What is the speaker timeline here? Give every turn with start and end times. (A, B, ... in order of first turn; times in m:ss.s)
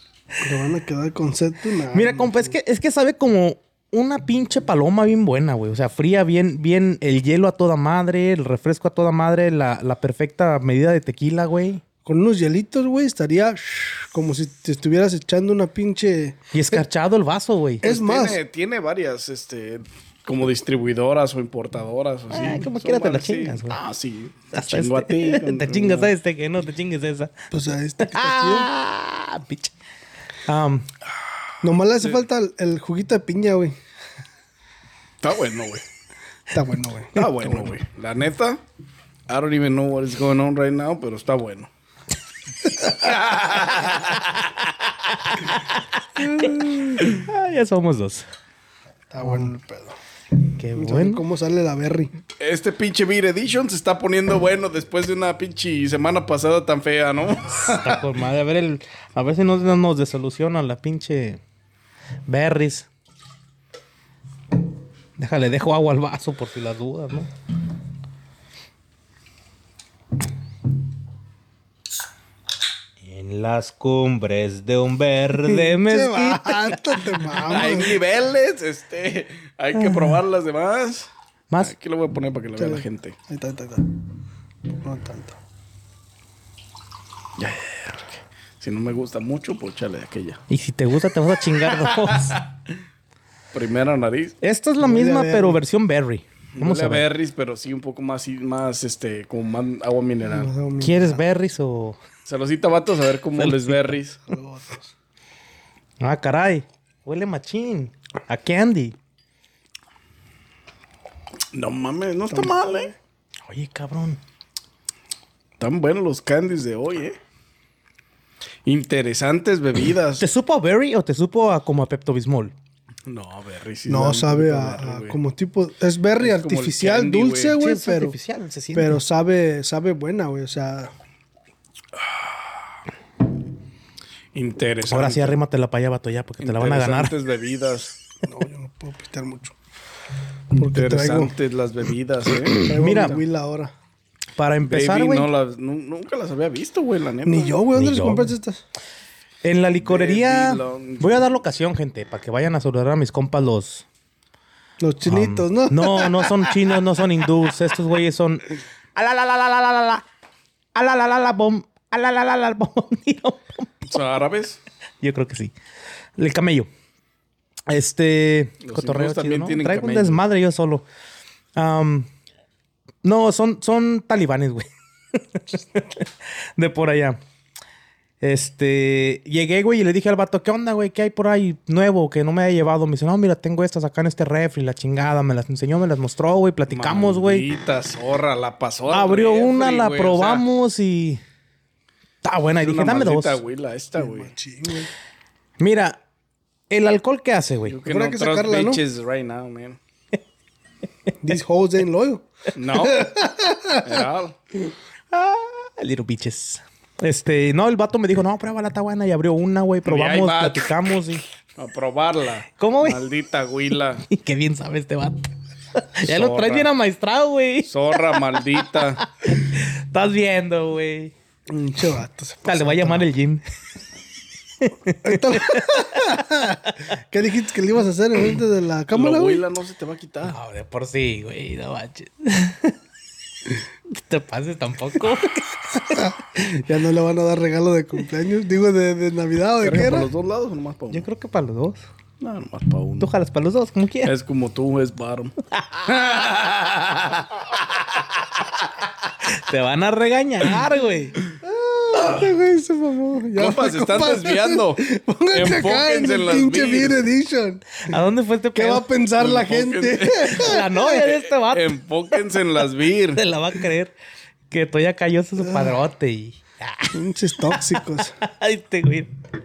0:00.4-0:02.5 A
0:01.9-0:11.8 B
0:12.0-0:16.8 A
0:16.5-0:17.8 B
0:17.8-0:18.4 A
0:17.8-0:26.1 C
0:22.3-0:23.8 B
0:24.5-0:27.4 B
0:27.5-0:28.7 A
0:28.0-0:29.7 B
0:30.5-0:30.9 B
0:31.6-0:33.8 A
0:35.2-0:35.8 C
0:36.5-0:37.7 A
0:37.2-0:38.6 C
0:39.3-0:41.7 C
0:42.8-0:44.5 C
0:45.3-0:48.3 B
0:46.3-0:47.2 C
0:49.1-0:50.0 A
0:49.2-0:49.5 B
0:50.6-0:51.2 B
0:50.8-0:52.1 A
0:52.4-0:58.1 C
0:57.6-1:01.4 B
1:02.3-1:02.9 B
1:05.2-1:07.3 B
1:13.0-1:17.2 B
1:15.4-1:18.0 A
1:17.4-1:23.2 C
1:19.8-1:20.1 B
1:22.6-1:23.9 A
1:24.7-1:25.4 A
1:27.4-1:30.4 C
1:30.5-1:32.4 B
1:31.8-1:32.6 C
1:33.5-1:34.4 C
1:34.4-1:37.1 B
1:34.8-1:35.6 A
1:36.5-1:40.5 C
1:40.3-1:41.2 A
1:40.8-1:42.0 B
1:42.3-1:44.2 C
1:43.4-1:43.8 B
1:44.3-1:44.9 A
1:46.0-1:49.0 B
1:51.5-1:52.9 C
1:52.3-1:52.9 A
1:53.5-1:54.2 B
1:55.6-1:57.2 C
1:58.7-2:00.3 C
2:00.2-2:02.5 B
2:03.1-2:05.2 C
2:03.9-2:08.2 A
2:06.2-2:07.6 C
2:07.6-2:09.0 B
2:08.7-2:10.9 A
2:14.3-2:15.4 C
2:14.9-2:17.1 B
2:16.4-2:18.0 C
2:18.2-2:19.6 A
2:20.6-2:21.3 A
2:20.6-2:22.7 C
2:22.5-2:23.7 A
2:22.7-2:23.2 B
2:24.4-2:25.3 B
2:24.7-2:27.6 C
2:27.2-2:28.6 A
2:27.7-2:28.3 B
2:29.4-2:33.9 B
2:29.8-2:31.2 C
2:34.8-2:36.6 A
2:35.0-2:40.0 B
2:40.8-2:43.7 B
2:43.9-2:44.6 C
2:45.0-2:45.5 B
2:46.2-2:46.7 B
2:47.7-2:50.9 B
2:48.6-2:50.2 C
2:51.6-2:52.1 B
2:53.0-2:57.2 B
2:58.2-3:07.5 B
3:06.7-3:10.5 C
3:08.9-3:11.2 B
3:12.2-3:13.4 B
3:12.6-3:14.3 C
3:14.0-3:14.9 A
3:15.6-3:16.0 B
3:16.7-3:17.8 B
3:17.6-3:19.8 C
3:17.8-3:18.8 A
3:21.2-3:24.0 A
3:22.5-3:23.1 C
3:23.8-3:24.4 C
3:25.1-3:31.2 B
3:29.8-3:30.7 C
3:31.6-3:34.0 C
3:32.6-3:33.1 B
3:34.0-3:41.1 B
3:36.0-3:36.7 C
3:37.6-3:39.0 C
3:41.5-3:43.1 A
3:42.4-3:43.4 B
3:44.6-3:46.2 B
3:45.0-3:49.4 A
3:48.9-3:50.4 C
3:50.3-3:52.8 B
3:53.9-3:56.1 B
3:55.9-4:00.1 A
3:59.6-4:01.1 C
4:00.9-4:01.8 B
4:02.2-4:03.1 C
4:03.0-4:04.1 B
4:04.0-4:08.6 C
4:09.2-4:11.2 B
4:11.4-4:17.9 A
4:13.4-4:17.0 C
4:17.9-4:18.9 B
4:18.6-4:21.1 A
4:19.2-4:20.6 C
4:20.3-4:21.7 B
4:21.3-4:23.2 C
4:23.2-4:23.9 B
4:24.5-4:26.9 B
4:26.9-4:28.2 A
4:27.5-4:29.1 B